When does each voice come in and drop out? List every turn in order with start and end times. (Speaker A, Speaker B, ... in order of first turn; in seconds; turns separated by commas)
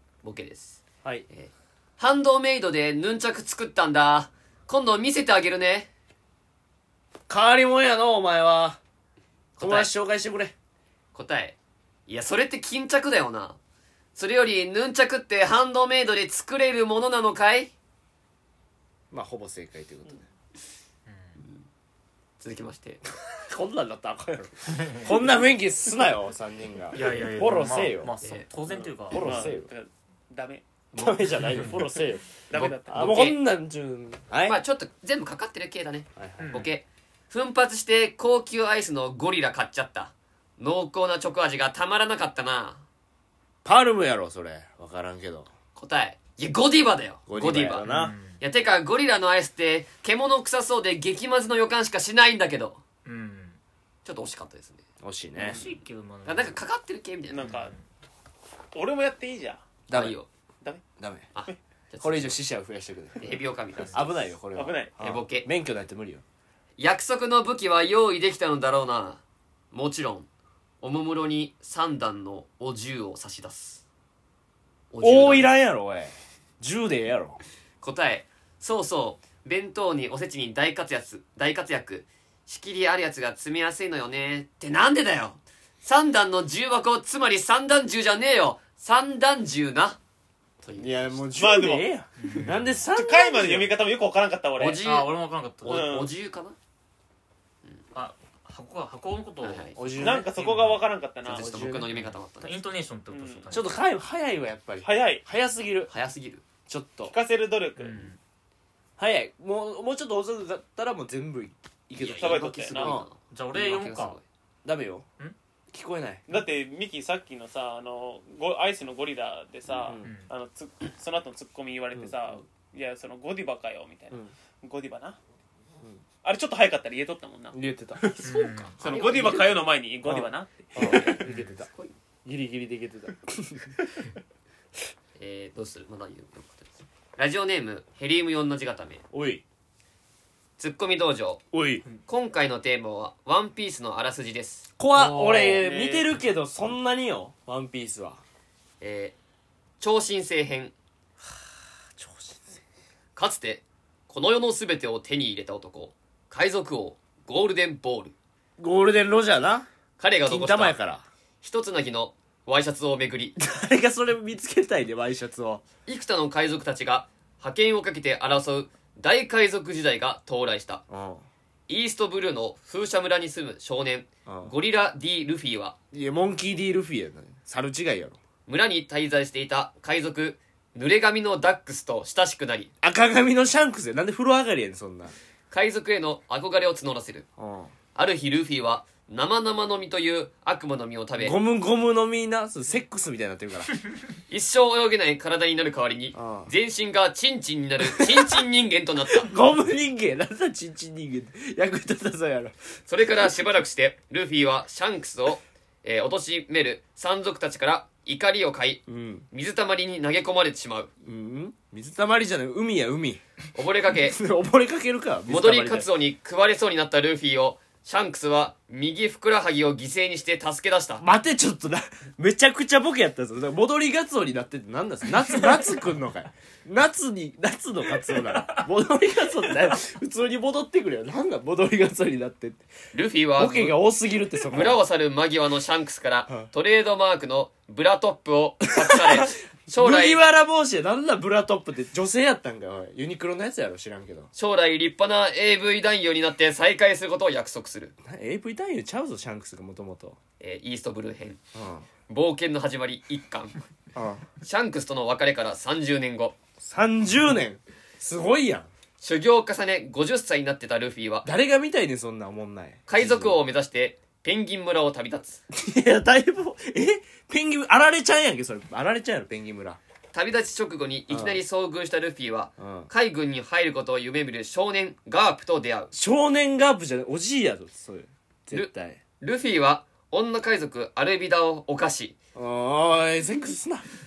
Speaker A: 0.2-5.9, Speaker B: 7.3-8.8, Speaker A: 9.6-9.9, Speaker B: 9.6-10.5, Speaker A: 11.1-11.6, Speaker A: 12.1-13.6, Speaker A: 14.2-17.7, Speaker B: 19.1-20.3, Speaker C: 21.1-21.4, Speaker A: 21.4-21.7, Speaker A: 22.4-23.0, Speaker B: 23.3-28.1, Speaker C: 26.9-29.5, Speaker A: 28.2-28.5, Speaker D: 28.7-30.6, Speaker B: 29.1-29.7, Speaker B: 30.9-32.3, Speaker D: 32.5-33.4, Speaker A: 32.5-33.4, Speaker B: 32.9-34.6, Speaker A: 34.4-42.8, Speaker B: 36.2-36.6, Speaker C: 36.4-36.7, Speaker B: 43.6-45.5, Speaker A: 45.8-47.9, Speaker B: 47.3-48.1, Speaker C: 47.9-48.4, Speaker A: 48.4-52.8, Speaker C: 53.0-53.6, Speaker A: 54.0-54.8, Speaker B: 55.0-55.6, Speaker C: 55.4-56.6, Speaker A: 56.2-57.5, Speaker D: 57.3-57.7, Speaker C: 57.4-57.8, Speaker D: 58.7-59.7, Speaker B: 59.9-60.2, Speaker A: 59.9-60.3, Speaker B: 61.0-61.3, Speaker A: 61.3-62.4, Speaker B: 62.0-66.2, Speaker A: 63.2-64.2, Speaker D: 64.5-64.9, Speaker A: 65.0-65.5, Speaker A: 66.8-70.3, Speaker A: 70.8-73.8, Speaker A: 74.9-75.5, Speaker B: 75.0-77.4, Speaker A: 77.8-90.0, Speaker A: 90.6-91.2, Speaker B: 90.8-93.8, Speaker D: 91.3-91.9, Speaker C: 92.2-92.7, Speaker D: 93.0-94.8, Speaker A: 94.6-96.6, Speaker C: 94.8-95.9, Speaker D: 95.7-96.1, Speaker C: 97.9-100.9, Speaker A: 99.4-99.8, Speaker B: 99.8-100.3, Speaker D: 100.0-101.5, Speaker A: 101.2-102.6, Speaker B: 101.3-101.9, Speaker C: 101.9-103.8, Speaker D: 103.1-103.6, Speaker B: 103.5-105.9, Speaker D: 104.8-105.2, Speaker A: 105.9-106.4, Speaker B: 106.7-107.1, Speaker D: 107.1-108.1, Speaker C: 107.8-108.2, Speaker B: 109.0-113.1, Speaker A: 112.0-114.2, Speaker D: 112.2-113.0, Speaker C: 113.3-114.2, Speaker B: 114.7-115.0, Speaker B: 115.7-116.2, Speaker D: 116.3-125.2, Speaker B: 119.7-120.1, Speaker C: 120.0-120.3, Speaker B: 122.0-122.4, Speaker D: 126.2-131.1, Speaker B: 127.5-128.7, Speaker C: 128.2-128.8, Speaker A: 128.8-129.6, Speaker B: 130.1-131.7, Speaker A: 130.8-131.9, Speaker B: 132.2-133.7, Speaker A: 135.2-139.0, Speaker B: 139.1-139.4, Speaker A: 140.6-141.4, Speaker B: 141.5-141.8, Speaker A: 142.1-144.7, Speaker B: 144.8-148.2, Speaker C: 145.0-145.6, Speaker D: 145.1-146.1, Speaker A: 148.8-149.2, Speaker A: 149.8-150.7, Speaker B: 151.2-152.6, Speaker A: 153.2-158.1, Speaker B: 158.6-159.7, Speaker A: 160.0-160.8, Speaker B: 160.3-161.1, Speaker A: 161.4-163.3, Speaker B: 163.4-165.6, Speaker A: 165.9-170.8, Speaker B: 170.9-171.3, Speaker A: 171.7-175.8, Speaker B: 174.3-174.5, Speaker B: 175.9-178.2, Speaker A: 178.5-182.7, Speaker B: 182.8-185.1, Speaker A: 185.5-187.3, Speaker B: 187.4-187.7, Speaker A: 187.9-191.4, Speaker B: 191.2-193.7, Speaker A: 194.3-199.3, Speaker B: 196.1-196.5, Speaker B: 197.9-198.4, Speaker B: 199.1-202.5, Speaker A: 202.9-210.9, Speaker B: 208.9-209.3, Speaker B: 211.0-213.2, Speaker A: 213.6-214.2, Speaker B: 214.0-215.9, Speaker A: 215.3-221.0, Speaker B: 221.0-232.7, Speaker C: 228.3-228.6, Speaker A: 232.9-233.8, Speaker B: 233.4-234.8, Speaker A: 234.5-240.2, Speaker B: 238.8-244.3, Speaker A: 244.3-247.9, Speaker B: 248.0-250.2, Speaker A: 250.4-251.4, Speaker B: 251.5-251.9, Speaker A: 252.1-253.6, Speaker B: 253.9-254.3, Speaker A: 254.4-256.4, Speaker B: 256.6-258.7, Speaker A: 259.0-261.3, Speaker B: 261.2-263.4, Speaker A: 262.9-265.4, Speaker B: 265.5-269.8, Speaker A: 270.1-275.9, Speaker B: 271.1-271.4, Speaker B: 272.6-272.9, Speaker B: 275.9-279.0, Speaker A: 278.5-282.2, Speaker B: 282.4-283.9